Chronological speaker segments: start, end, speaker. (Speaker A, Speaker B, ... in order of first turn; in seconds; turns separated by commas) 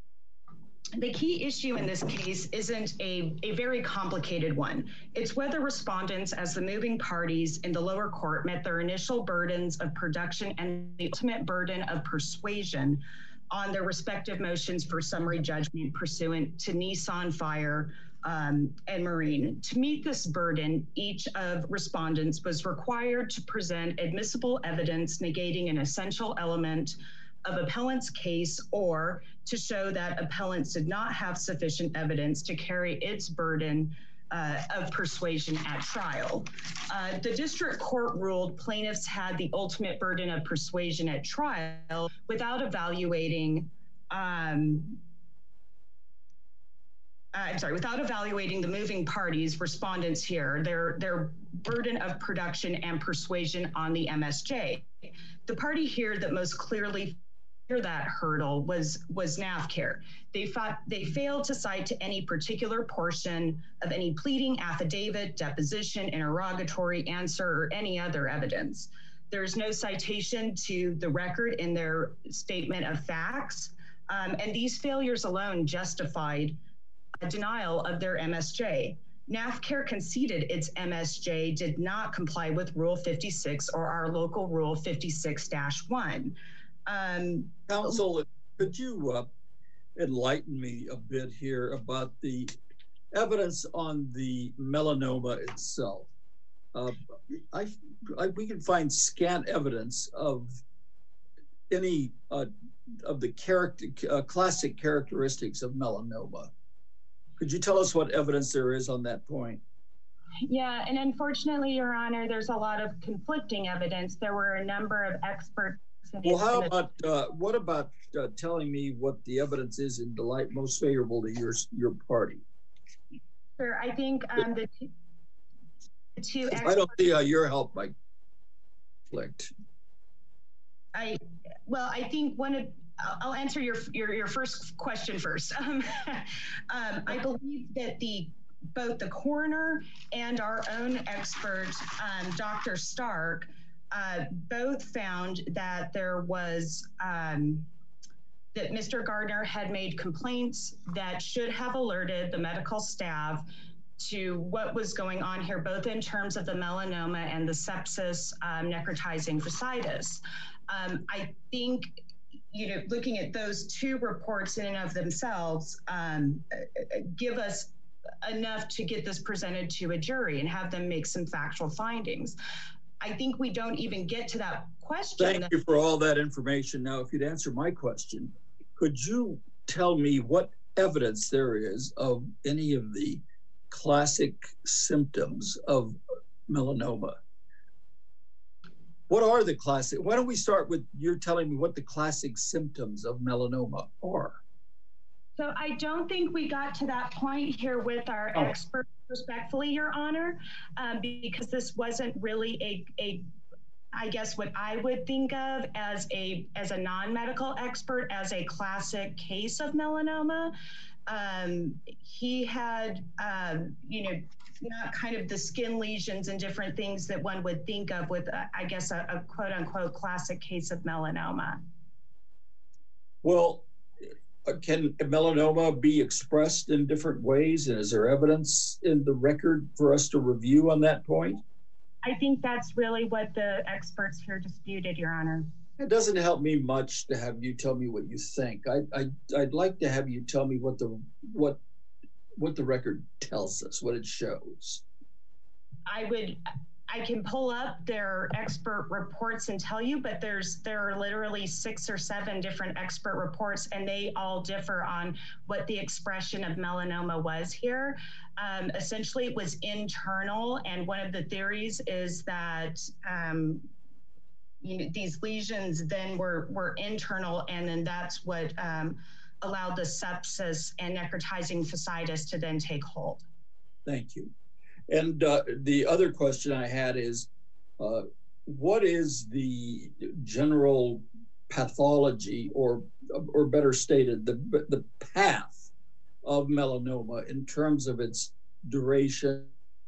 Speaker A: 1.0-45.0, Speaker A: 47.3-76.6, Speaker A: 77.2-86.4, Speaker A: 86.9-87.7, Speaker B: 87.7-89.3, Speaker B: 90.0-92.5, Speaker B: 93.1-96.1, Speaker B: 96.7-100.5, Speaker B: 101.7-106.5, Speaker B: 107.4-109.6, Speaker A: 110.5-116.8, Speaker B: 116.2-122.4, Speaker A: 123.6-124.9, Speaker A: 126.2-127.0, Speaker B: 126.6-128.0, Speaker B: 129.1-129.5, Speaker A: 130.9-147.7, Speaker A: 148.5-153.5, Speaker A: 154.0-161.9, Speaker A: 162.5-167.7, Speaker A: 168.2-172.4, Speaker A: 173.0-175.5, Speaker B: 175.2-187.2, Speaker B: 189.1-194.4, Speaker A: 195.4-203.3, Speaker A: 203.9-210.6, Speaker A: 211.1-221.6, Speaker B: 223.2-223.7, Speaker B: 224.5-231.4, Speaker A: 232.0-235.5, Speaker B: 235.8-241.6, Speaker B: 242.4-244.8, Speaker A: 245.9-263.7, Speaker A: 264.6-273.2, Speaker B: 273.9-274.3, Speaker B: 274.9-277.3, Speaker B: 277.8-285.7, Speaker B: 286.2-289.5